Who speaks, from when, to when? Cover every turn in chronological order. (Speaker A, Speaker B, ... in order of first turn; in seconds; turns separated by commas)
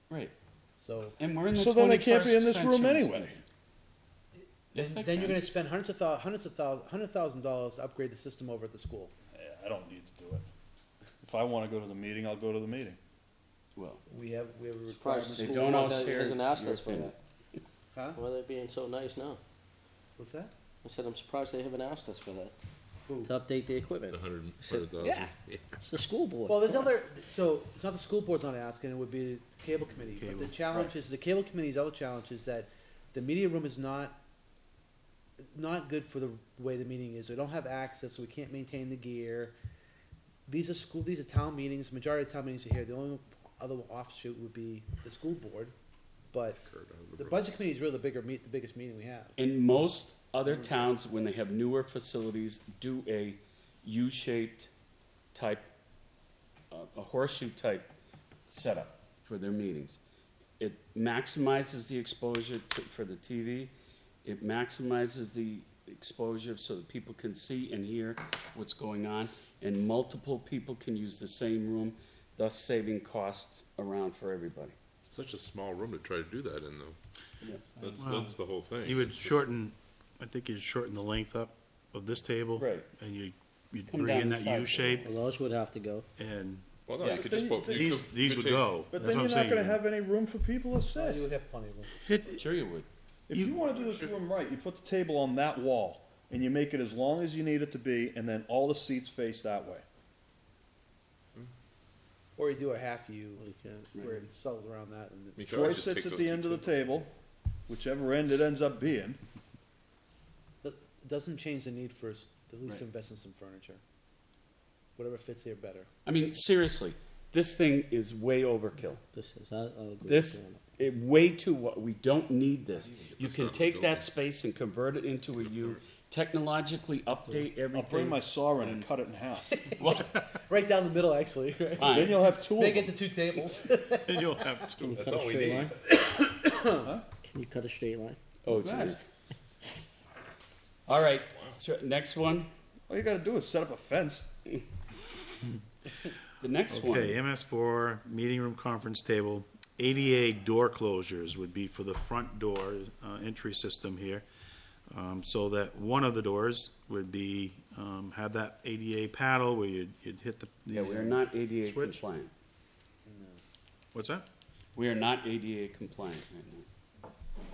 Speaker A: 0.8-1.2, Speaker B: 1.2-3.4, Speaker C: 1.5-3.3, Speaker A: 4.7-9.1, Speaker B: 4.7-5.4, Speaker C: 9.3-10.4, Speaker C: 11.2-13.0, Speaker B: 13.8-14.0, Speaker A: 14.1-16.1, Speaker D: 14.9-17.1, Speaker B: 15.4-17.1, Speaker A: 17.9-18.2, Speaker D: 18.1-19.4, Speaker A: 20.2-20.5, Speaker D: 20.8-22.5, Speaker A: 23.1-23.3, Speaker D: 23.2-26.9, Speaker E: 24.1-25.8, Speaker A: 26.4-34.2, Speaker F: 30.1-30.8, Speaker A: 35.4-39.5, Speaker A: 40.5-45.7, Speaker A: 46.3-46.6, Speaker E: 46.6-47.5, Speaker A: 47.1-49.4, Speaker B: 49.4-54.7, Speaker A: 50.4-50.9, Speaker B: 55.3-55.7, Speaker B: 56.7-57.9, Speaker B: 58.5-60.0, Speaker B: 60.6-63.7, Speaker B: 64.2-74.7, Speaker E: 75.1-77.0, Speaker E: 77.7-79.4, Speaker F: 78.0-85.2, Speaker B: 82.5-82.9, Speaker B: 83.9-85.1, Speaker D: 85.0-86.1, Speaker F: 86.2-86.7, Speaker E: 86.9-88.8, Speaker B: 87.0-87.3, Speaker C: 87.0-87.9, Speaker F: 87.6-89.8, Speaker C: 88.9-91.3, Speaker A: 90.9-92.0, Speaker F: 92.0-92.4, Speaker B: 92.3-92.9, Speaker C: 93.3-99.8, Speaker F: 93.3-93.6, Speaker E: 93.7-94.2, Speaker A: 102.4-103.5, Speaker D: 103.4-103.9, Speaker B: 103.9-104.2, Speaker A: 104.0-106.0, Speaker E: 105.4-106.7, Speaker C: 105.5-107.1, Speaker C: 107.7-109.2, Speaker A: 110.6-113.8, Speaker A: 115.0-115.9, Speaker B: 116.0-119.0, Speaker D: 119.1-120.6, Speaker B: 120.0-128.9, Speaker E: 122.7-124.1, Speaker E: 125.3-125.9, Speaker C: 127.7-129.6, Speaker A: 129.5-134.7, Speaker B: 131.8-132.2, Speaker C: 131.8-132.9, Speaker F: 133.9-135.0, Speaker D: 134.8-135.8, Speaker E: 134.9-135.8, Speaker A: 135.9-136.9, Speaker C: 136.8-137.1, Speaker D: 137.2-138.2, Speaker B: 138.4-139.0, Speaker C: 138.5-139.0, Speaker B: 140.9-142.5, Speaker C: 142.9-144.3, Speaker B: 146.4-147.2, Speaker F: 146.7-154.2, Speaker F: 154.9-162.0, Speaker B: 160.7-162.3, Speaker A: 163.0-163.4, Speaker F: 163.9-164.2, Speaker B: 164.8-166.7